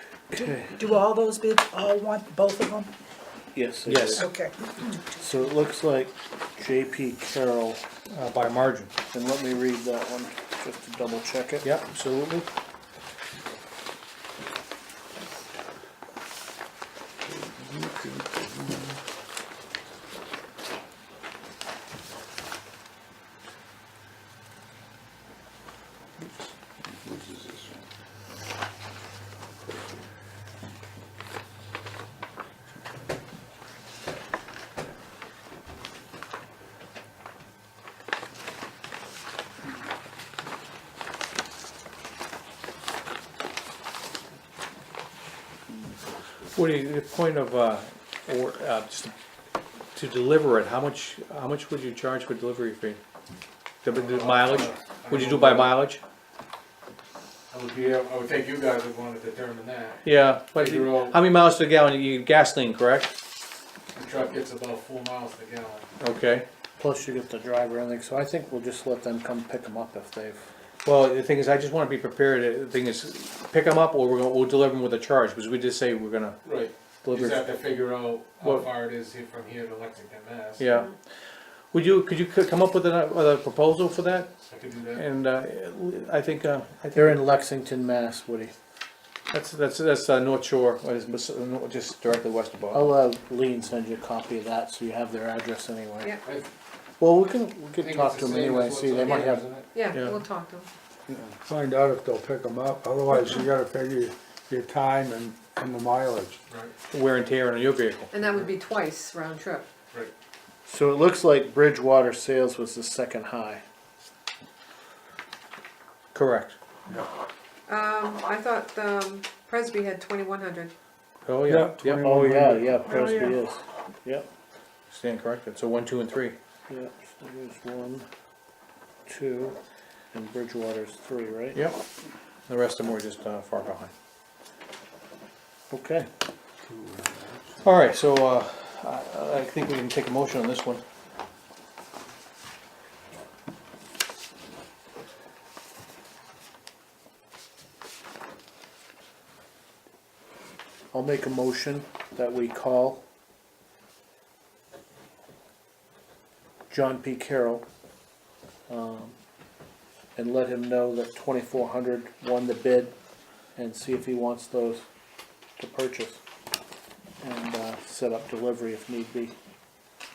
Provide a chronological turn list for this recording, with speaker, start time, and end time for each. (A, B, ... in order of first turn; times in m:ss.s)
0:00.3-0:00.8 A
0:00.4-0:02.9 B
0:03.5-0:04.2 A
0:03.8-0:04.2 C
0:04.2-0:04.5 B
0:05.2-0:07.8 A
0:08.1-0:08.9 C
0:09.1-0:11.7 A
0:11.6-0:12.5 C
0:17.4-0:18.8 D
0:26.9-0:27.6 D
0:46.5-0:49.1 C
0:49.9-0:53.0 C
0:53.8-0:56.0 C
0:53.9-0:55.7 E
0:57.5-1:01.2 E
1:00.0-1:03.2 C
1:03.9-1:05.9 E
1:06.0-1:06.4 C
1:06.8-1:10.5 A
1:10.8-1:16.4 C
1:16.4-1:20.6 E
1:17.1-1:17.6 C
1:18.4-1:18.7 C
1:20.6-1:21.0 C
1:21.7-1:24.3 C
1:24.5-1:25.0 E
1:24.9-1:27.2 C
1:26.9-1:28.5 A
1:29.3-1:32.9 C
1:32.7-1:36.2 A
1:36.2-1:36.5 E
1:37.0-1:39.6 A
1:37.8-1:39.6 E
1:39.7-1:40.7 F
1:39.9-1:40.2 C
1:41.1-1:46.4 D
1:46.9-1:48.1 C
1:48.1-1:49.6 F
1:50.6-1:53.6 A
1:56.1-1:56.6 C
1:57.7-2:00.7 F
2:01.2-2:02.1 C
2:01.4-2:03.3 D
2:02.0-2:04.3 A
2:02.9-2:03.3 B
2:04.9-2:06.4 C
2:06.7-2:08.1 A
2:09.0-2:09.6 A
2:10.1-2:11.7 A
2:11.5-2:11.8 C
2:12.5-2:13.9 C
2:15.7-2:16.1 A
2:16.6-2:17.3 D
2:17.6-2:20.8 C
2:30.9-2:33.0 A
2:36.7-2:37.6 A
2:38.7-2:39.2 A
2:40.1-2:43.0 A
2:43.5-2:44.8 A
2:45.6-2:46.2 A
2:47.2-2:49.4 A